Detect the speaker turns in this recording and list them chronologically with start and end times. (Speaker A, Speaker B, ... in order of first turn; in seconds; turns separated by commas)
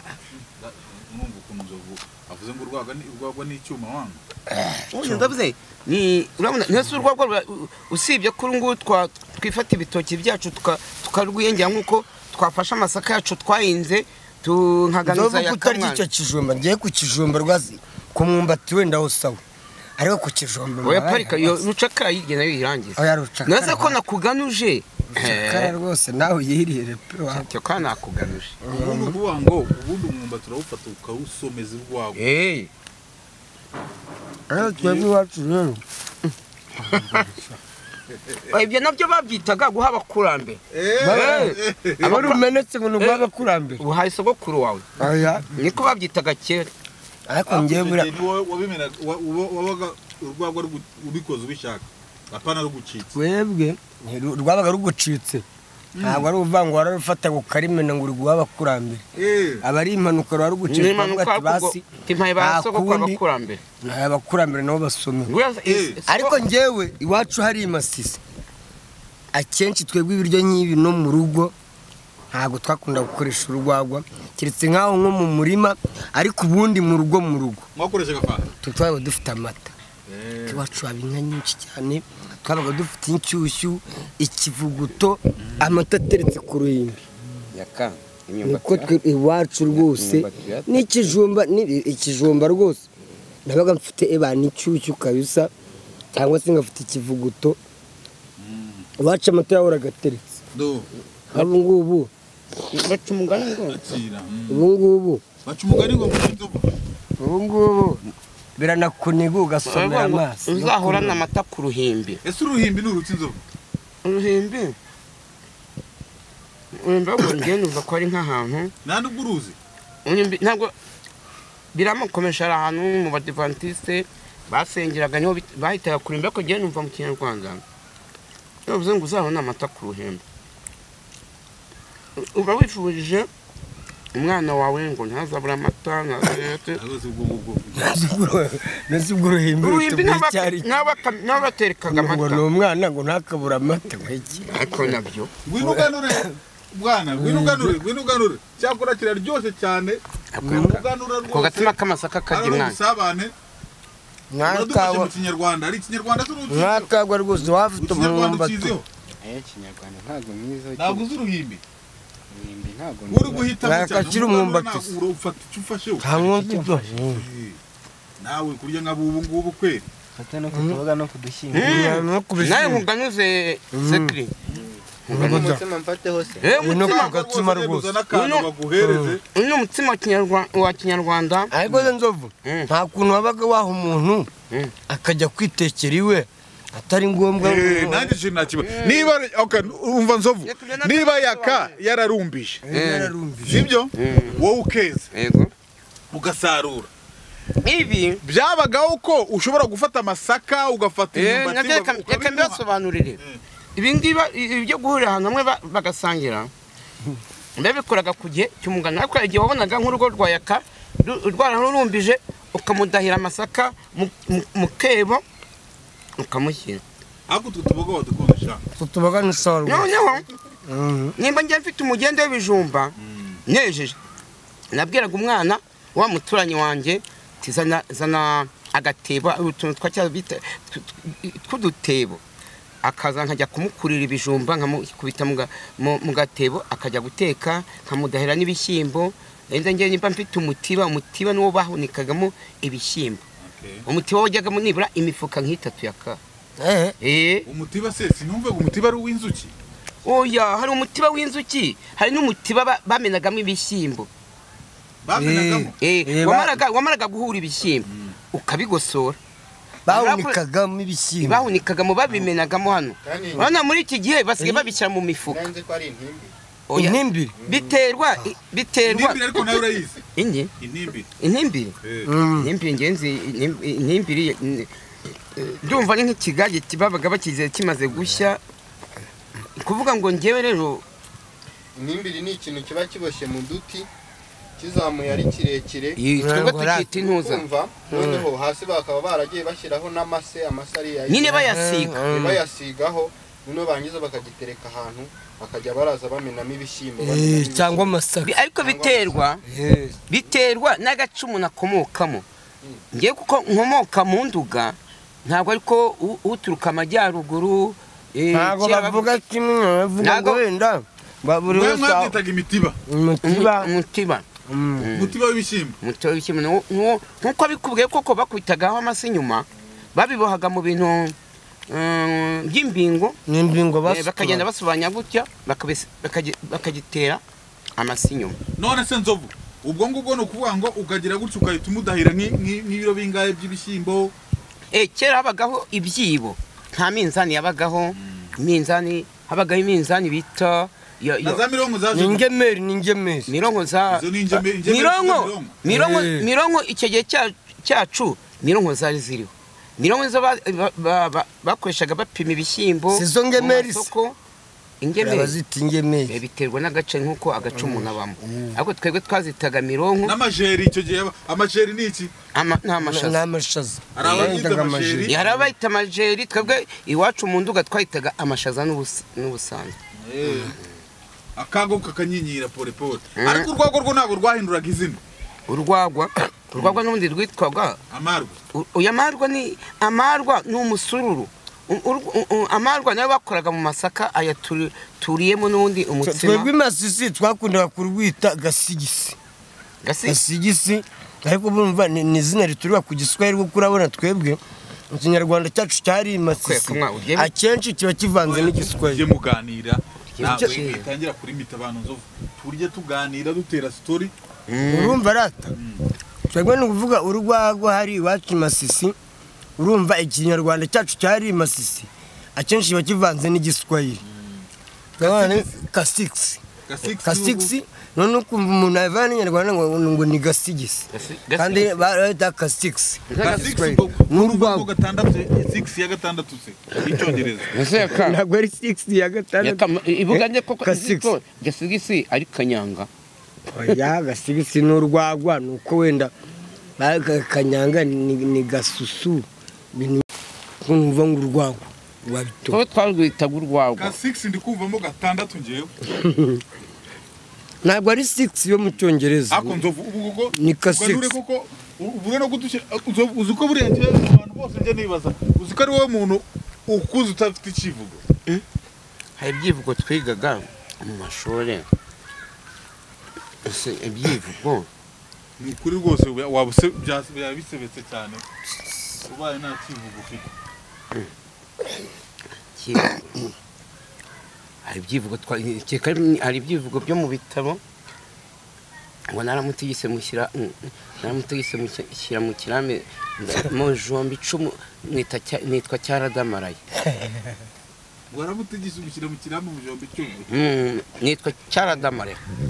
Speaker A: 0.6-4.2, Speaker B: 4.8-16.0, Speaker C: 15.1-19.4, Speaker C: 20.0-21.5, Speaker B: 20.8-25.7, Speaker C: 23.0-24.0, Speaker C: 25.1-27.5, Speaker B: 27.3-28.6, Speaker C: 28.6-29.2, Speaker A: 28.7-32.2, Speaker B: 32.2-32.7, Speaker C: 34.5-35.8, Speaker A: 34.6-35.1, Speaker B: 38.5-42.5, Speaker A: 40.7-42.2, Speaker C: 41.0-43.8, Speaker B: 43.0-43.3, Speaker B: 43.8-44.9, Speaker C: 45.0-45.5, Speaker B: 45.5-46.7, Speaker C: 47.3-48.1, Speaker A: 47.5-53.1, Speaker C: 53.1-55.4, Speaker A: 56.0-56.3, Speaker C: 56.0-59.0, Speaker A: 59.2-59.6, Speaker C: 59.6-61.8, Speaker B: 60.7-63.6, Speaker C: 62.4-63.2, Speaker C: 63.8-65.3, Speaker B: 65.3-66.4, Speaker A: 65.7-66.0, Speaker C: 66.1-68.2, Speaker C: 69.3-71.5, Speaker C: 72.3-77.6, Speaker A: 77.8-78.5, Speaker C: 78.6-79.7, Speaker A: 80.1-80.6, Speaker C: 80.5-87.0, Speaker B: 87.5-88.9, Speaker C: 88.4-92.8, Speaker B: 89.7-90.7, Speaker C: 93.5-95.5, Speaker C: 96.1-97.6, Speaker A: 98.4-98.8, Speaker C: 99.0-100.2, Speaker A: 100.5-100.9, Speaker C: 101.3-102.1, Speaker B: 102.7-103.8, Speaker A: 103.7-104.6, Speaker C: 104.5-105.2, Speaker A: 105.5-106.7, Speaker C: 107.2-108.0, Speaker C: 108.6-111.2, Speaker B: 109.7-112.2, Speaker A: 112.2-113.4, Speaker B: 114.0-114.8, Speaker B: 116.8-118.7, Speaker A: 118.8-119.5, Speaker B: 120.1-120.7, Speaker B: 121.7-127.6, Speaker B: 128.7-130.2, Speaker B: 132.2-133.3, Speaker B: 134.1-136.8, Speaker A: 136.8-137.8, Speaker C: 137.8-140.7, Speaker B: 139.6-142.4, Speaker C: 141.9-144.5, Speaker B: 144.5-145.3, Speaker A: 145.4-151.7, Speaker C: 145.6-146.3, Speaker C: 147.2-147.8, Speaker C: 150.4-150.8, Speaker B: 151.3-152.8, Speaker A: 152.3-153.3, Speaker C: 154.3-155.1, Speaker A: 154.4-156.9, Speaker C: 156.5-158.8, Speaker A: 157.8-158.8, Speaker D: 159.2-161.1, Speaker A: 160.8-161.6, Speaker D: 162.3-163.6, Speaker A: 163.1-167.6, Speaker C: 163.6-165.0, Speaker C: 166.0-167.2, Speaker A: 168.2-169.8, Speaker D: 170.2-171.8, Speaker C: 170.5-170.8, Speaker B: 171.5-174.3, Speaker C: 171.5-172.8, Speaker C: 173.7-174.1, Speaker B: 175.1-175.6, Speaker C: 175.1-175.6, Speaker D: 175.2-176.5, Speaker B: 176.4-177.2, Speaker A: 176.5-179.2, Speaker C: 176.6-177.9, Speaker B: 178.1-178.5, Speaker C: 178.8-179.2, Speaker B: 179.3-181.5, Speaker C: 181.5-184.3, Speaker B: 182.4-182.7, Speaker C: 184.9-188.1, Speaker A: 187.4-192.6, Speaker B: 188.6-189.1, Speaker B: 190.4-191.7, Speaker C: 192.7-193.7, Speaker B: 192.7-193.1, Speaker A: 193.4-195.1, Speaker B: 194.0-194.4, Speaker B: 195.1-195.5, Speaker A: 196.1-196.9, Speaker B: 197.6-198.2, Speaker A: 198.2-202.6, Speaker B: 201.1-203.2, Speaker B: 203.8-206.5, Speaker B: 207.6-215.2, Speaker B: 216.2-216.8, Speaker A: 217.3-218.6, Speaker C: 218.8-219.9, Speaker B: 219.7-220.3, Speaker C: 220.7-221.1, Speaker B: 221.2-222.9, Speaker B: 223.5-224.0, Speaker B: 224.7-232.2, Speaker B: 232.8-243.2, Speaker A: 243.5-243.8, Speaker B: 243.9-246.2, Speaker C: 246.6-246.9, Speaker B: 247.0-247.5, Speaker A: 247.5-249.5, Speaker B: 250.1-254.1, Speaker A: 255.1-255.7, Speaker C: 255.2-256.6, Speaker B: 255.8-259.2, Speaker C: 259.9-261.4, Speaker B: 259.9-260.4, Speaker B: 261.2-265.5, Speaker D: 263.0-263.5, Speaker C: 264.4-264.6, Speaker D: 265.3-266.3, Speaker B: 266.7-269.6, Speaker C: 266.8-267.3, Speaker A: 268.9-270.0, Speaker B: 270.2-270.5, Speaker A: 270.6-271.1, Speaker B: 271.2-271.8, Speaker C: 272.1-272.5, Speaker B: 272.4-274.7, Speaker B: 275.4-278.4, Speaker B: 279.6-280.8, Speaker D: 281.8-283.9, Speaker D: 284.6-286.0, Speaker B: 286.0-287.5, Speaker C: 286.2-286.9, Speaker D: 287.0-291.5, Speaker C: 287.9-288.3, Speaker B: 291.1-292.1, Speaker C: 291.5-292.4, Speaker D: 292.1-297.9, Speaker C: 297.0-298.3, Speaker B: 298.2-299.4, Speaker D: 298.6-299.2, Speaker C: 299.4-300.0, Speaker B: 300.1-302.2, Speaker B: 302.9-309.2, Speaker C: 308.3-312.2, Speaker B: 310.0-310.4, Speaker A: 311.5-312.8, Speaker C: 312.9-313.7, Speaker B: 313.2-314.2, Speaker C: 314.5-314.9, Speaker B: 314.8-315.2, Speaker A: 314.9-315.8, Speaker B: 315.8-321.1, Speaker B: 321.7-323.2, Speaker C: 323.3-324.4, Speaker B: 323.9-327.2, Speaker B: 327.8-328.4, Speaker A: 328.6-334.1, Speaker B: 334.7-341.4, Speaker A: 341.2-342.2, Speaker C: 341.9-343.3, Speaker B: 343.3-354.2, Speaker A: 343.9-345.6, Speaker C: 345.7-346.3, Speaker C: 352.9-353.9, Speaker B: 354.8-355.3, Speaker C: 355.0-356.2, Speaker B: 356.1-360.2, Speaker C: 357.5-357.9, Speaker A: 360.0-362.1, Speaker B: 362.3-363.2, Speaker C: 362.8-365.3, Speaker A: 363.9-365.2, Speaker B: 365.1-369.8, Speaker A: 370.0-370.6, Speaker A: 371.4-375.0, Speaker B: 373.2-373.5, Speaker B: 375.5-377.8, Speaker A: 377.9-378.3, Speaker B: 378.5-386.5, Speaker C: 386.1-389.2, Speaker B: 389.8-390.2, Speaker C: 390.1-394.4, Speaker C: 394.9-399.0, Speaker B: 396.4-397.3, Speaker A: 398.3-404.1, Speaker B: 400.2-400.9, Speaker B: 404.5-405.0, Speaker C: 404.7-405.5, Speaker C: 406.3-408.9, Speaker C: 409.6-414.0, Speaker C: 415.0-416.4, Speaker A: 415.0-415.6, Speaker A: 416.7-417.6, Speaker C: 417.0-420.9, Speaker B: 420.9-421.9, Speaker C: 421.4-424.7, Speaker B: 423.1-423.6, Speaker A: 423.2-427.6, Speaker B: 427.5-428.2, Speaker C: 427.9-431.1, Speaker B: 429.4-432.9, Speaker C: 433.5-436.1, Speaker C: 436.8-440.1, Speaker C: 440.6-442.6, Speaker B: 442.5-443.9, Speaker A: 443.8-445.7, Speaker C: 447.6-449.6, Speaker A: 449.3-458.0, Speaker C: 450.4-451.2, Speaker B: 459.2-461.7, Speaker B: 463.4-464.7, Speaker A: 465.4-468.2, Speaker A: 469.1-470.3, Speaker B: 472.6-473.3, Speaker B: 474.6-477.6, Speaker B: 479.1-486.6, Speaker A: 488.1-490.3, Speaker B: 490.3-492.2